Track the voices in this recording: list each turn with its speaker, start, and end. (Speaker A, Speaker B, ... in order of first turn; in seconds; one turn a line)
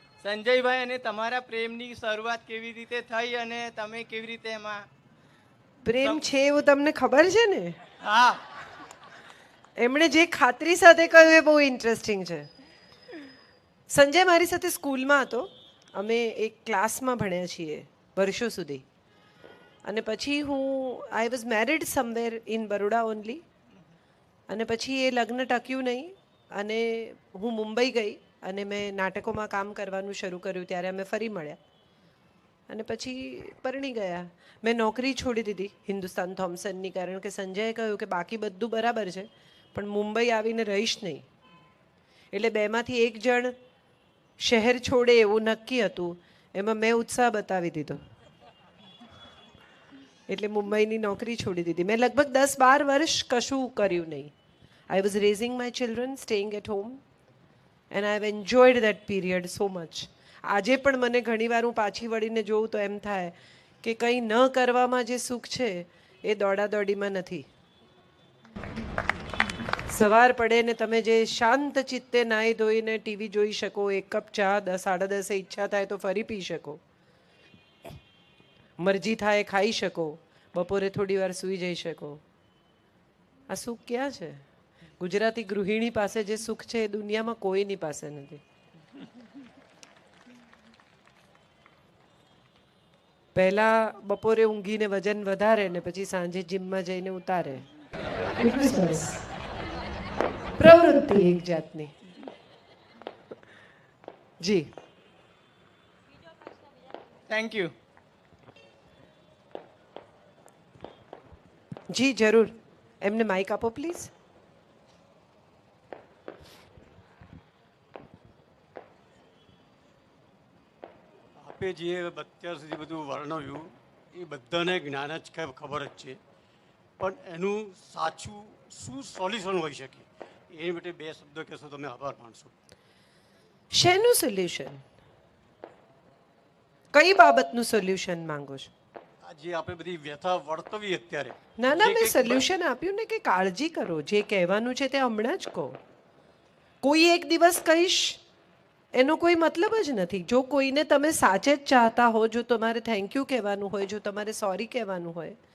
Speaker A: 0.2-4.8
Speaker B: 5.8-7.8
Speaker A: 8.0-8.4
Speaker B: 9.8-12.5
Speaker B: 13.9-18.8
Speaker B: 19.8-23.4
Speaker B: 24.5-31.6
Speaker B: 32.7-41.3
Speaker B: 42.3-43.5
Speaker B: 44.4-48.0
Speaker B: 50.3-54.3
Speaker B: 54.9-57.0
Speaker B: 57.9-67.5
Speaker B: 69.9-76.8
Speaker B: 78.8-82.2
Speaker B: 83.5-84.4
Speaker B: 85.0-88.4
Speaker B: 93.3-97.6
Speaker B: 98.4-99.2
Speaker B: 100.6-102.0
Speaker B: 104.4-104.7
Speaker A: 107.3-107.7
Speaker B: 111.9-114.1
Speaker C: 121.4-126.2
Speaker C: 127.0-132.5
Speaker B: 133.7-134.8
Speaker B: 136.9-138.7
Speaker C: 139.2-142.4
Speaker B: 141.6-145.8
Speaker B: 146.8-148.2
Speaker B: 148.9-155.3